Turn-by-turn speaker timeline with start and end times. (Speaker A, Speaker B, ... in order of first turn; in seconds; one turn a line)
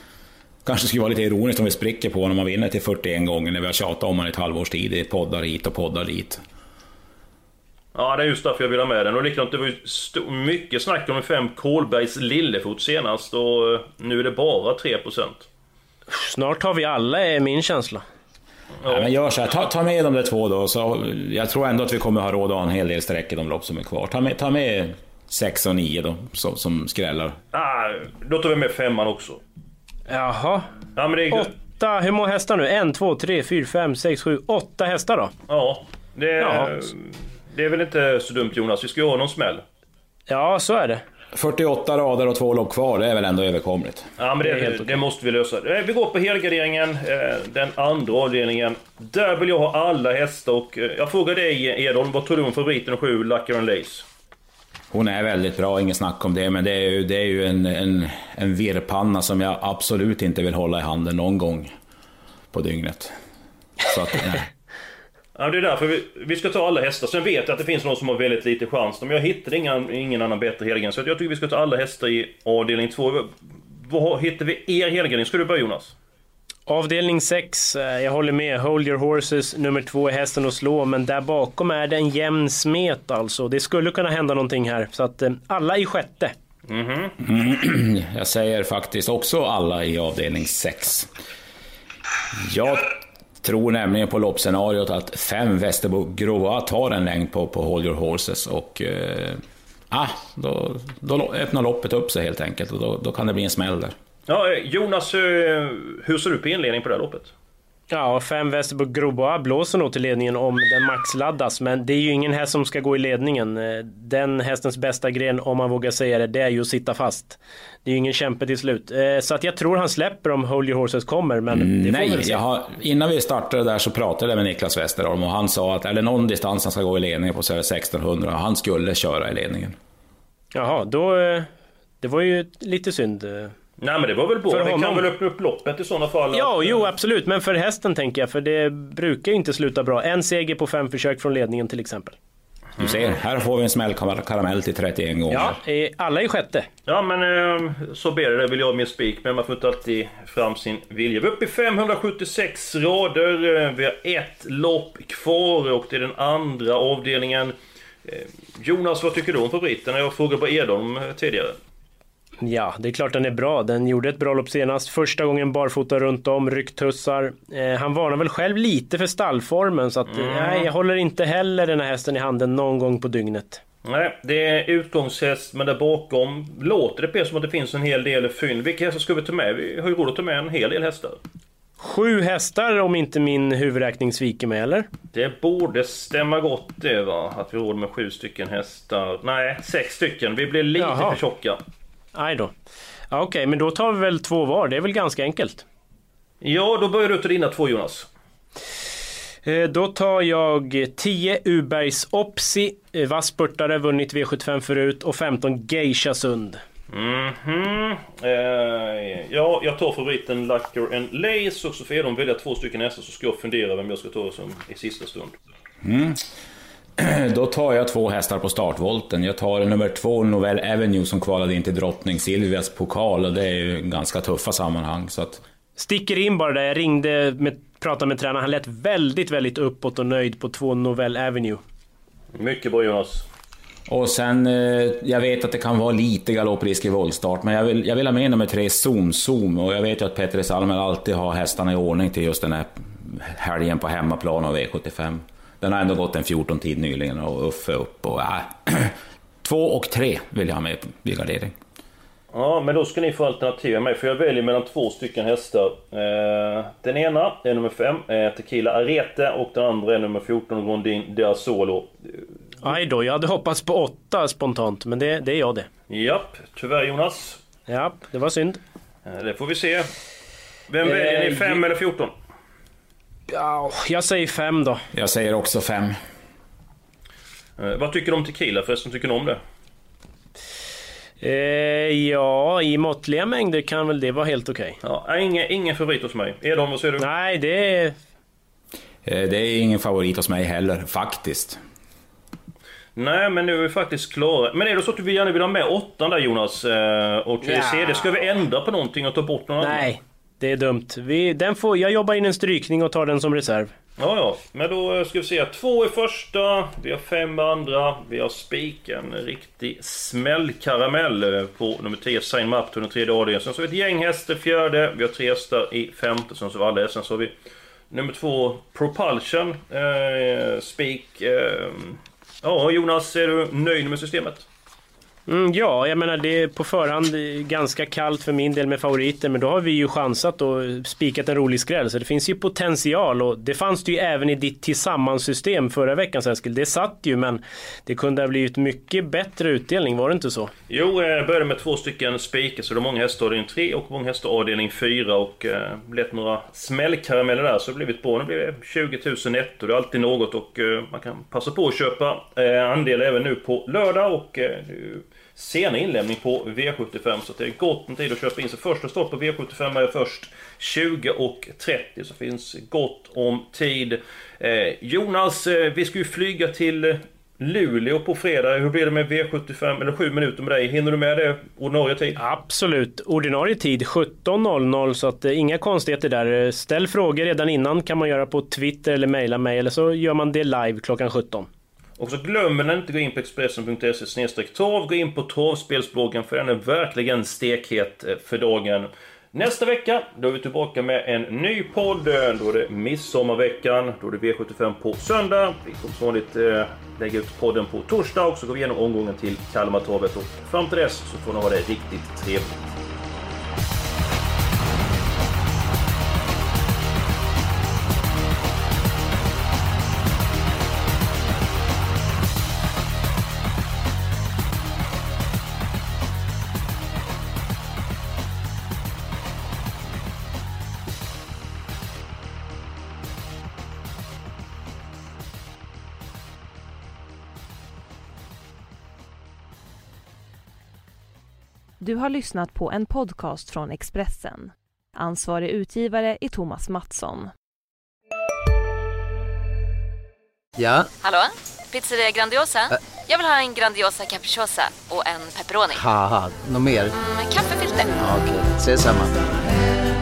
Speaker A: 0.6-6.4
Speaker B: 7.9-15.5
Speaker C: 16.1-18.0
Speaker B: 18.8-19.1
Speaker A: 18.9-27.4
Speaker B: 27.5-29.4
Speaker C: 30.1-30.7
Speaker B: 31.0-31.5
Speaker C: 31.3-35.3
Speaker B: 35.5-39.6
Speaker C: 36.4-36.7
Speaker C: 40.3-41.0
Speaker A: 41.3-44.1
Speaker B: 44.2-54.1
Speaker C: 44.4-45.0
Speaker A: 54.9-61.7
Speaker A: 62.5-63.1
Speaker A: 63.8-64.5
Speaker B: 65.4-73.3
Speaker B: 73.9-75.9
Speaker C: 76.7-86.3
Speaker B: 86.7-87.1
Speaker A: 87.2-91.1
Speaker A: 92.3-103.9
Speaker B: 104.3-107.3
Speaker C: 107.9-122.4
Speaker A: 121.5-129.8
Speaker C: 130.5-131.5
Speaker C: 132.0-133.5
Speaker B: 133.8-136.9
Speaker C: 134.5-135.1
Speaker C: 136.3-142.2
Speaker A: 142.8-145.6
Speaker C: 145.3-146.7
Speaker B: 146.9-161.6
Speaker C: 162.4-173.6
Speaker B: 170.1-170.7
Speaker B: 173.8-181.2
Speaker C: 181.8-184.9
Speaker B: 185.1-191.6
Speaker C: 190.8-191.2
Speaker C: 192.1-192.5
Speaker C: 193.1-195.6
Speaker B: 196.4-198.1
Speaker C: 199.4-206.6
Speaker B: 206.9-215.3
Speaker A: 215.8-216.2
Speaker A: 217.0-225.4
Speaker C: 225.8-231.6
Speaker B: 232.3-233.3
Speaker A: 233.9-251.5
Speaker B: 252.3-262.2
Speaker C: 262.6-265.7
Speaker B: 265.9-267.4
Speaker C: 267.7-268.6
Speaker B: 269.1-269.9
Speaker B: 270.7-272.1
Speaker C: 270.8-271.6
Speaker C: 273.3-274.8
Speaker A: 274.9-276.0
Speaker B: 277.6-279.4
Speaker C: 281.2-284.8
Speaker B: 284.8-287.1
Speaker C: 287.0-287.9
Speaker A: 289.1-291.6
Speaker B: 292.9-299.9
Speaker C: 297.4-298.1
Speaker C: 299.6-303.7
Speaker B: 304.0-317.3
Speaker B: 317.9-324.4
Speaker C: 325.3-340.5
Speaker B: 340.7-372.2
Speaker C: 372.2-381.5
Speaker B: 382.0-402.8
Speaker D: 431.8-437.3
Speaker E: 440.6-440.9
Speaker F: 441.0-445.8
Speaker E: 445.7-446.9
Speaker F: 447.0-448.0
Speaker E: 448.0-449.2